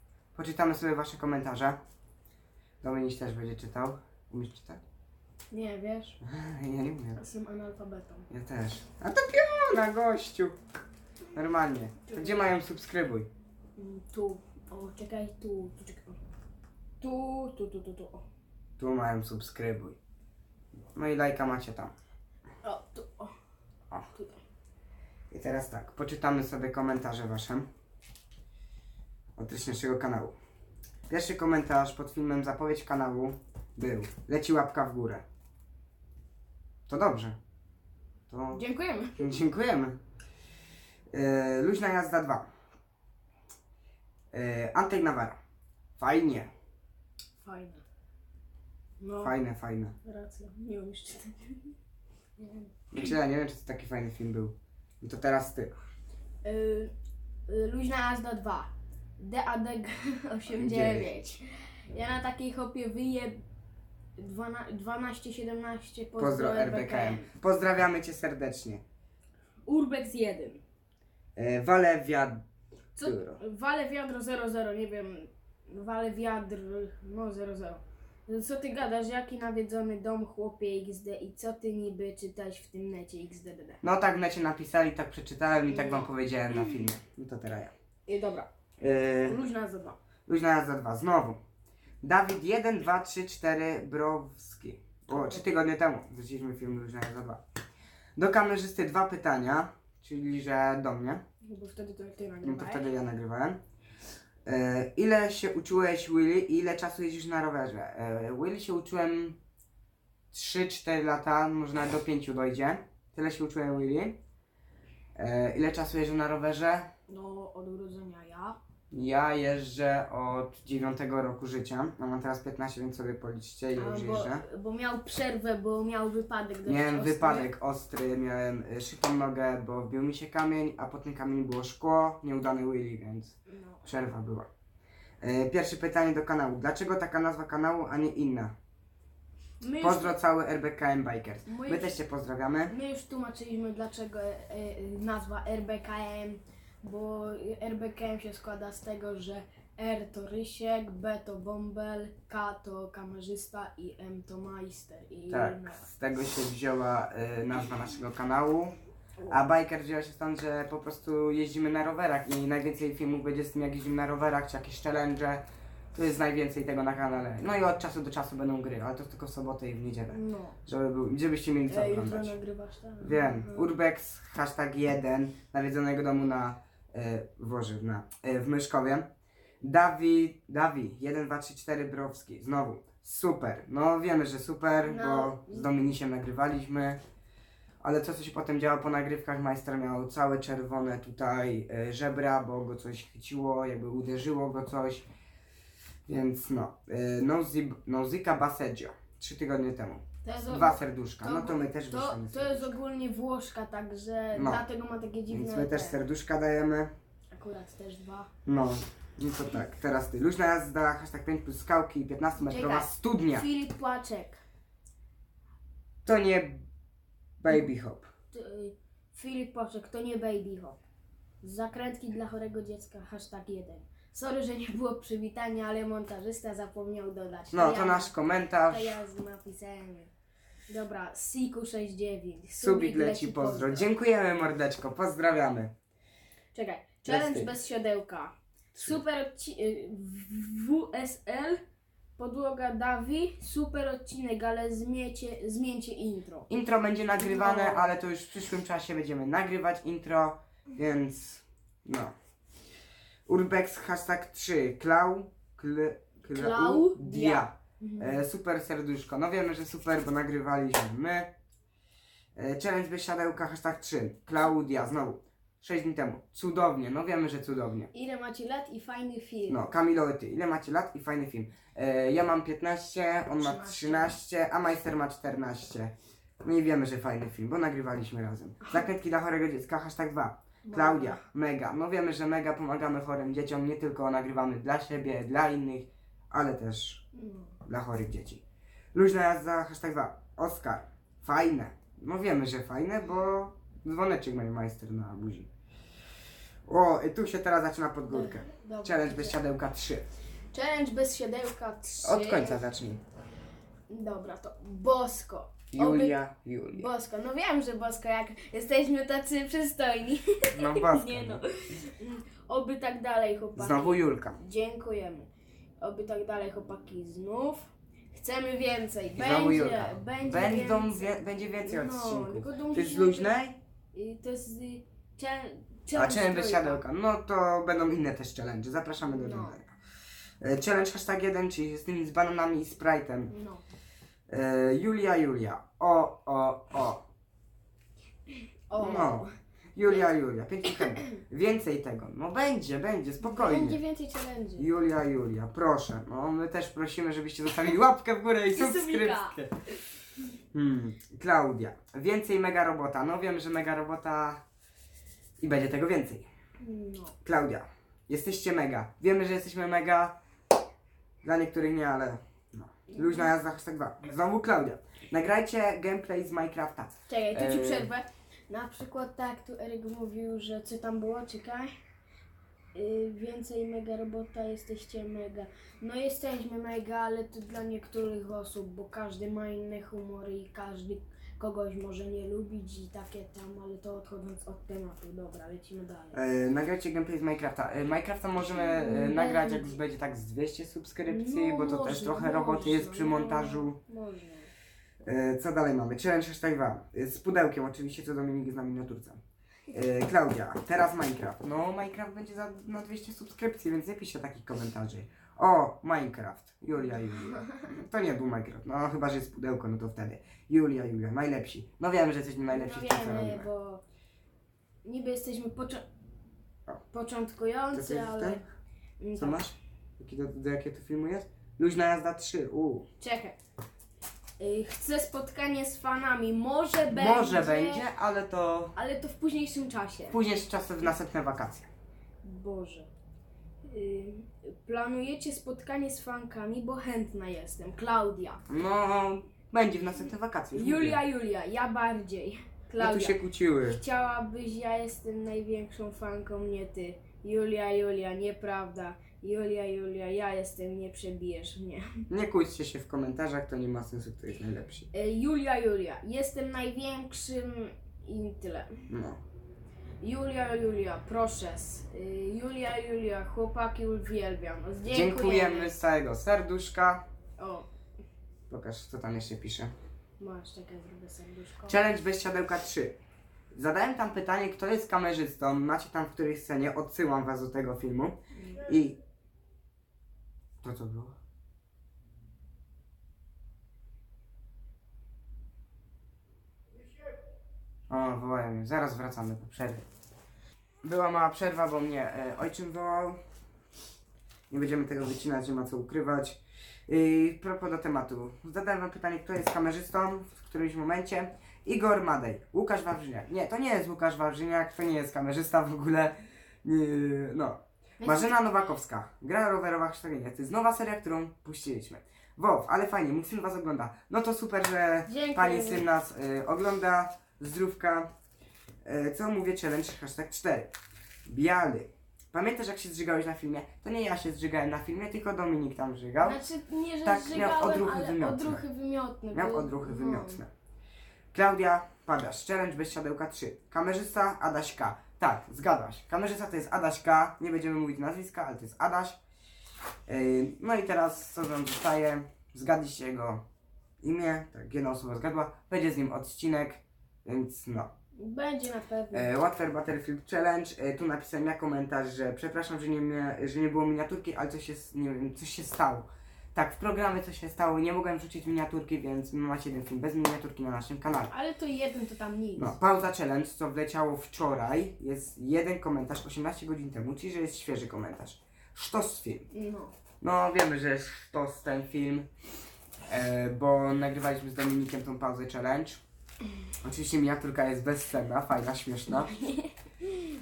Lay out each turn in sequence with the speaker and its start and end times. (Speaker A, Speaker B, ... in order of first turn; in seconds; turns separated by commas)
Speaker A: 0.3-1.8, Speaker A: 2.8-4.8, Speaker B: 5.5-6.2, Speaker A: 6.2-7.2, Speaker B: 7.2-8.3, Speaker A: 8.3-10.6, Speaker A: 11.3-13.3, Speaker B: 12.1-12.5, Speaker B: 13.8-16.2, Speaker B: 17.0-18.2, Speaker A: 18.8-20.0, Speaker A: 20.9-21.9, Speaker B: 22.6-23.3, Speaker B: 24.1-24.4, Speaker A: 25.3-27.7, Speaker A: 29.4-30.4, Speaker A: 31.1-35.2, Speaker A: 36.9-37.4, Speaker A: 38.3-38.6, Speaker B: 38.5-39.2, Speaker A: 39.2-40.0, Speaker A: 41.1-42.5, Speaker A: 44.3-45.4, Speaker A: 46.0-46.5, Speaker B: 47.4-47.8, Speaker B: 49.0-49.4, Speaker A: 49.2-50.0, Speaker B: 50.0-51.7, Speaker B: 52.4-52.7, Speaker A: 52.9-55.7, Speaker B: 56.4-56.9, Speaker B: 57.5-63.4, Speaker A: 60.5-61.2, Speaker B: 64.2-67.3, Speaker A: 66.2-68.8, Speaker B: 69.7-70.6, Speaker A: 71.4-72.4, Speaker A: 73.0-73.4, Speaker B: 73.0-83.8, Speaker A: 83.8-87.7, Speaker B: 85.7-86.9, Speaker B: 88.1-88.5, Speaker A: 88.8-89.4, Speaker B: 89.2-90.0, Speaker A: 90.3-91.4, Speaker A: 92.0-97.4, Speaker B: 95.1-95.4, Speaker A: 98.2-101.2, Speaker B: 101.4-102.9, Speaker A: 102.4-103.6, Speaker A: 104.5-109.4, Speaker A: 110.3-114.2, Speaker A: 115.2-116.9, Speaker B: 117.1-118.6, Speaker A: 118.9-124.5, Speaker B: 123.8-127.5, Speaker A: 126.7-134.5, Speaker B: 133.5-133.9, Speaker A: 135.2-138.5, Speaker B: 139.6-140.2, Speaker A: 139.8-142.7, Speaker B: 141.5-142.0, Speaker B: 142.7-155.9, Speaker A: 155.3-158.8, Speaker A: 159.3-172.4, Speaker B: 170.1-170.6, Speaker B: 171.7-173.7, Speaker A: 173.0-179.1, Speaker A: 179.6-187.0, Speaker B: 184.8-185.7, Speaker A: 187.8-195.1, Speaker A: 196.1-202.7, Speaker B: 200.2-206.0, Speaker A: 204.3-204.7, Speaker A: 205.3-206.9, Speaker B: 207.3-208.3, Speaker A: 208.5-213.5, Speaker B: 212.4-214.4, Speaker A: 216.1-216.7, Speaker A: 217.4-218.1, Speaker B: 218.3-220.8, Speaker B: 221.4-228.2, Speaker A: 227.5-229.0, Speaker B: 228.7-230.1, Speaker B: 230.7-233.9, Speaker A: 232.6-235.7, Speaker B: 236.5-241.6, Speaker A: 237.1-237.5, Speaker A: 238.8-239.0, Speaker B: 242.2-246.5, Speaker A: 246.5-252.1, Speaker B: 247.2-248.0, Speaker A: 253.3-261.3, Speaker B: 256.3-258.2, Speaker A: 262.4-267.9, Speaker B: 267.9-269.7, Speaker A: 269.5-287.1, Speaker B: 273.4-274.2, Speaker B: 278.6-278.9, Speaker B: 280.6-281.2, Speaker B: 287.1-287.6, Speaker A: 287.6-288.4, Speaker A: 288.9-295.5, Speaker A: 296.7-300.1, Speaker B: 298.1-299.4, Speaker B: 300.5-302.6, Speaker A: 302.0-303.0, Speaker B: 303.9-306.2, Speaker A: 305.7-306.9, Speaker B: 306.7-315.3, Speaker A: 310.5-311.4, Speaker A: 313.6-314.4, Speaker B: 315.8-323.4, Speaker A: 319.1-323.6, Speaker B: 323.9-326.8, Speaker A: 325.9-329.7, Speaker B: 329.0-329.6, Speaker A: 330.4-333.3, Speaker B: 333.3-333.6, Speaker A: 334.3-337.0, Speaker B: 338.7-339.3, Speaker A: 338.8-343.8, Speaker B: 340.8-341.2, Speaker B: 343.2-344.7, Speaker A: 344.6-349.5, Speaker B: 348.5-349.4, Speaker A: 350.5-354.4, Speaker A: 355.4-356.3, Speaker B: 356.6-357.1, Speaker A: 357.2-360.2, Speaker A: 361.2-367.9, Speaker B: 362.9-363.3, Speaker B: 367.1-371.8, Speaker B: 372.8-386.2, Speaker A: 386.1-393.8, Speaker B: 388.4-389.8, Speaker B: 391.1-394.5, Speaker A: 395.1-399.2, Speaker A: 399.7-413.5, Speaker B: 412.5-413.8, Speaker B: 414.9-415.8, Speaker B: 416.9-418.4, Speaker A: 417.7-418.4, Speaker B: 419.0-419.4, Speaker A: 419.2-422.9, Speaker B: 423.0-423.4, Speaker B: 424.4-427.9, Speaker A: 426.9-428.7, Speaker B: 428.8-430.2, Speaker A: 430.1-431.7, Speaker B: 432.2-432.9, Speaker B: 433.7-438.4, Speaker A: 438.5-441.0, Speaker B: 440.5-443.1, Speaker A: 442.8-443.8, Speaker B: 443.7-452.1, Speaker A: 452.1-454.9, Speaker B: 454.9-458.8, Speaker A: 458.9-459.2, Speaker B: 460.0-465.8, Speaker A: 464.9-467.1, Speaker B: 467.4-467.7, Speaker A: 468.5-469.7, Speaker B: 470.2-471.8, Speaker A: 471.7-473.0, Speaker A: 473.5-479.0, Speaker B: 478.4-478.6, Speaker A: 480.6-481.1, Speaker A: 487.9-489.8, Speaker A: 490.8-493.2, Speaker A: 494.5-518.1, Speaker B: 508.0-508.5, Speaker B: 515.1-515.8, Speaker A: 518.9-520.7, Speaker A: 521.3-526.4, Speaker B: 526.2-530.4, Speaker A: 527.0-528.6, Speaker A: 529.3-530.5, Speaker A: 531.3-539.2, Speaker A: 540.1-543.4, Speaker A: 544.0-547.9, Speaker B: 548.2-549.3, Speaker A: 549.1-561.3, Speaker B: 561.3-562.8, Speaker A: 562.6-569.5, Speaker B: 569.5-569.9, Speaker A: 570.2-572.3, Speaker A: 573.1-576.0, Speaker A: 576.8-579.3, Speaker B: 579.1-579.7